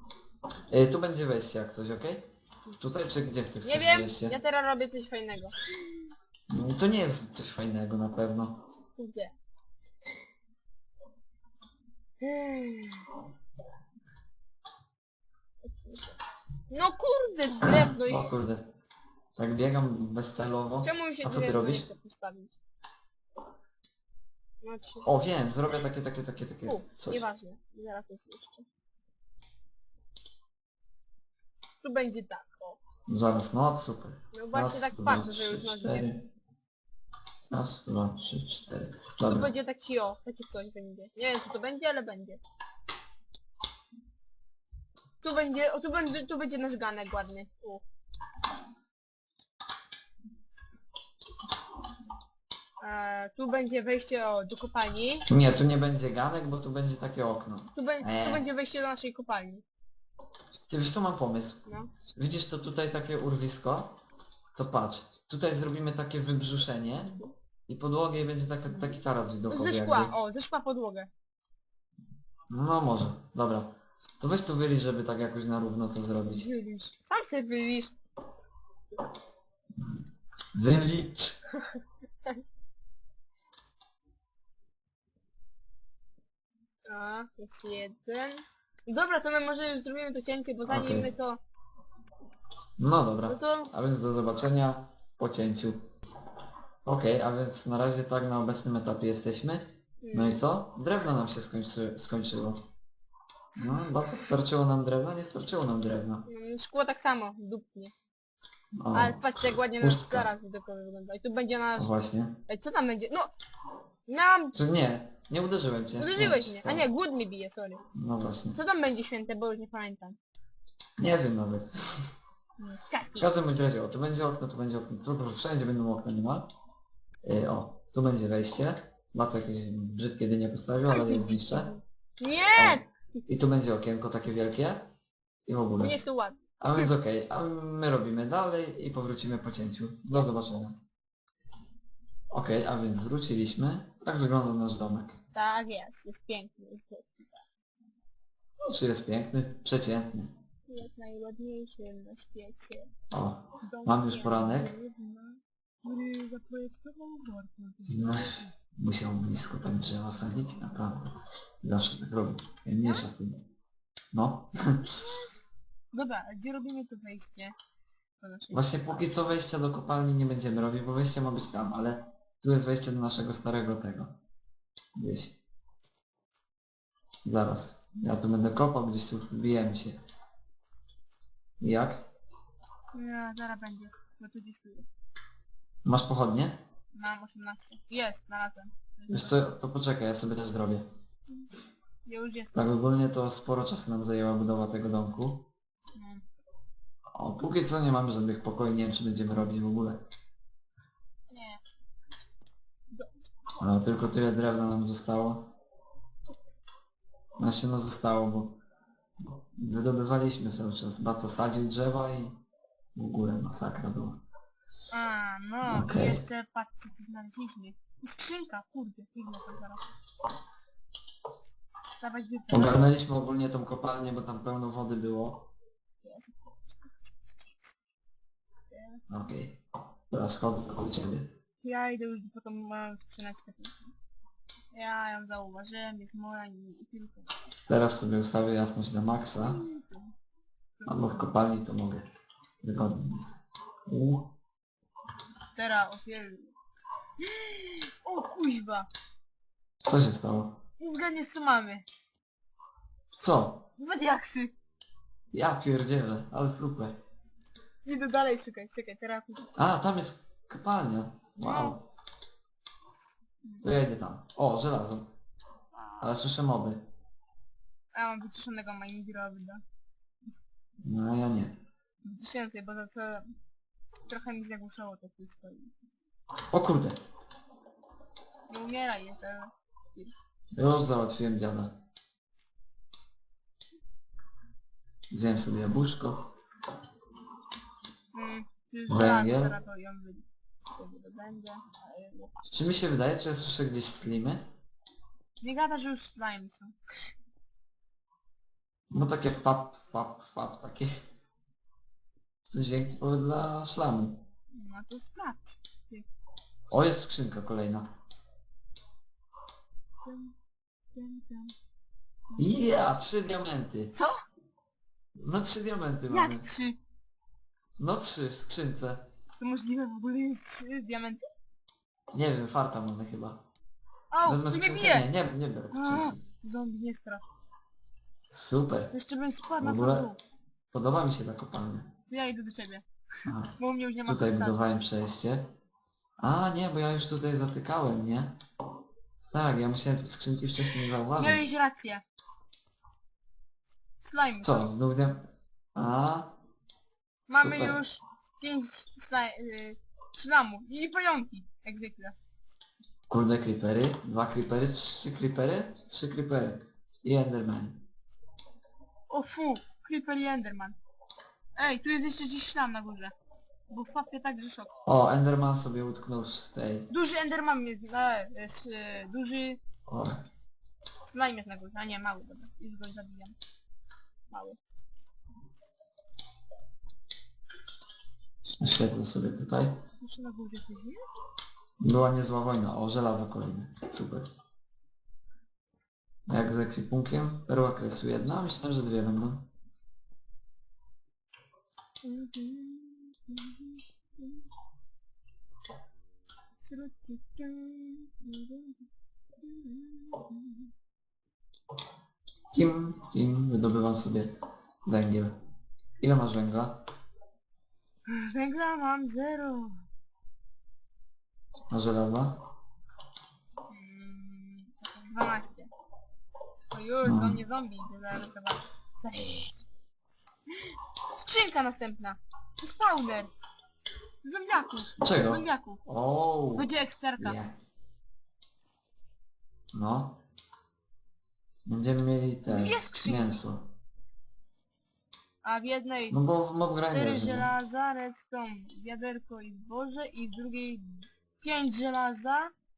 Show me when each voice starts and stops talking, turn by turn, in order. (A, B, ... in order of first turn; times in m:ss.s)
0:00.7-0:04.4 A
0:03.6-0:06.0 B
0:06.5-0:08.7 A
0:09.0-0:09.4 B
0:12.2-0:13.1 B
0:15.6-0:16.2 B
0:16.7-0:18.3 B
0:17.8-0:18.7 A
0:19.4-0:21.9 A
0:20.8-0:22.6 B
0:24.6-0:25.2 B
0:25.1-0:27.2 A
0:26.6-0:28.7 B
0:31.8-0:32.8 B
0:33.1-0:36.2 A
0:34.3-0:36.1 B
0:37.5-0:39.5 A
0:39.2-0:42.4 B
0:45.2-0:47.8 B
0:52.8-0:55.3 B
0:55.3-0:58.4 A
0:57.8-0:59.6 B
1:00.7-1:04.0 A
1:01.7-1:01.9 B
1:04.6-1:10.1 A
1:08.7-1:11.1 B
1:12.5-1:16.5 A
1:16.3-1:18.0 B
1:20.5-1:21.4 A
1:26.9-1:31.4 B
1:30.7-1:31.1 A
1:32.8-1:35.9 A
1:33.3-1:33.7 B
1:36.8-1:42.6 A
1:40.0-1:40.4 B
1:43.6-1:46.2 A
1:43.6-1:44.3 B
1:46.3-1:47.9 B
1:48.8-1:50.3 A
1:48.9-1:51.9 B
1:51.8-1:52.4 A
1:52.5-1:53.3 B
1:54.1-1:54.6 B
1:54.5-1:56.8 A
1:56.0-1:57.8 B
1:57.9-1:58.6 A
1:58.5-2:00.2 B
2:01.0-2:01.9 A
2:02.6-2:03.3 B
2:03.2-2:06.5 A
2:07.2-2:11.7 A
2:10.8-2:12.9 B
2:12.6-2:14.9 A
2:15.5-2:16.0 A
2:15.8-2:16.9 B
2:16.6-2:20.8 A
2:20.1-2:20.6 B
2:22.3-2:25.2 A
2:25.3-2:27.5 B
2:28.6-2:30.4 A
2:30.7-2:32.9 B
2:33.1-2:34.7 A
2:33.6-2:38.5 B
2:37.9-2:43.4 A
2:42.8-2:43.1 B
2:44.1-2:45.0 A
2:44.9-2:47.6 B
2:48.2-2:49.2 B
2:48.5-2:54.1 A
2:55.0-2:55.4 A
2:57.2-3:00.0 A
3:01.6-3:02.0 A
3:02.9-3:04.9 B
3:05.8-3:06.6 A
3:06.9-3:09.4 B
3:09.1-3:10.9 A
3:12.1-3:12.7 B
3:12.5-3:15.5 A
3:16.0-3:16.2 B
3:17.1-3:20.0 A
3:21.3-3:21.6 B
3:22.9-3:23.6 B
3:23.6-3:25.5 A
3:27.4-3:28.6 A
3:29.6-3:32.4 A
3:33.0-3:34.2 A
3:34.9-3:39.8 B
3:35.6-3:36.2 A
3:42.0-3:42.8 B
3:42.5-3:45.5 A
3:46.0-3:47.8 B
3:48.7-3:49.0 B
3:49.1-3:51.3 A
3:51.6-3:53.9 B
3:54.7-3:57.3 B
3:57.7-3:59.6 A
3:59.4-4:00.1 B
4:00.8-4:01.2 B
4:00.9-4:02.1 A
4:02.6-4:04.3 A
4:05.6-4:06.5 B
4:07.2-4:08.9 B
4:09.8-4:10.6 A
4:10.8-4:11.9 B
4:13.2-4:13.7 A
4:13.8-4:14.5 B
4:15.3-4:17.0 A
4:17.8-4:19.6 B
4:19.6-4:21.9 A
4:21.4-4:21.8 B
4:23.6-4:25.1 A
4:25.7-4:26.2 B
4:26.0-4:26.8 A
4:27.9-4:29.6 B
4:30.8-4:31.6 A
4:32.0-4:33.4 B
4:34.1-4:35.7 B
4:36.5-4:37.0 A
4:38.5-4:40.1 B
4:40.5-4:41.7 A
4:45.1-4:46.3 A
4:48.1-4:52.3 B
4:48.9-4:49.6 A
4:52.5-4:54.5 A
4:55.4-4:56.8 B
4:58.9-5:01.0 A
5:02.5-5:04.2 A
5:04.5-5:06.1 B
5:06.7-5:07.9 A
5:10.0-5:10.4 B
5:10.9-5:11.5 B
5:12.3-5:13.0 B
5:12.4-5:13.9 A
5:13.9-5:14.2 B
5:15.2-5:16.4 A
5:16.1-5:16.8 B
5:17.8-5:19.1 A
5:19.4-5:21.3 B
5:22.1-5:23.4 A
5:24.1-5:25.1 B
5:24.2-5:26.2 A
5:25.7-5:27.3 B
5:28.3-5:28.9 A
5:28.9-5:30.2 B
5:29.6-5:30.1 A
5:30.7-5:31.9 A
5:32.1-5:34.6 B
5:33.3-5:33.5 A
5:34.1-5:35.5 A
5:36.2-5:38.4 A
5:39.3-5:41.4 A
5:41.2-5:42.0 B
5:44.0-5:44.7 B
5:44.4-5:46.3 A
5:47.3-5:52.2 B
5:47.4-5:47.8 A
5:53.1-5:57.8 A
5:59.1-6:00.8 B
6:01.6-6:03.1 B
6:03.7-6:04.7 B
6:04.9-6:06.9 A
6:06.9-6:09.6 B
6:09.9-6:10.2 A
6:11.0-6:13.4 B
6:14.3-6:14.6 B
6:18.6-6:19.8 A
6:20.0-6:21.1 B
6:21.8-6:24.3 A
6:26.3-6:29.5 A
6:32.0-6:34.4 B
6:36.6-6:38.9 B
6:39.4-6:40.7 B
6:42.5-6:45.4 A
6:46.0-6:46.8 A
6:48.1-6:49.8 B
6:51.7-6:52.4 A
6:53.7-6:55.7 B
6:56.7-6:59.6 B
6:57.0-6:57.4 A
7:00.5-7:03.3 B
7:04.2-7:05.8 B
7:05.0-7:07.6 A
7:06.5-7:07.4 B
7:09.7-7:10.2 A
7:11.7-7:13.7 A
7:12.5-7:13.4 B
7:15.4-7:16.2 B
7:16.1-7:17.5 A
7:16.9-7:22.5 B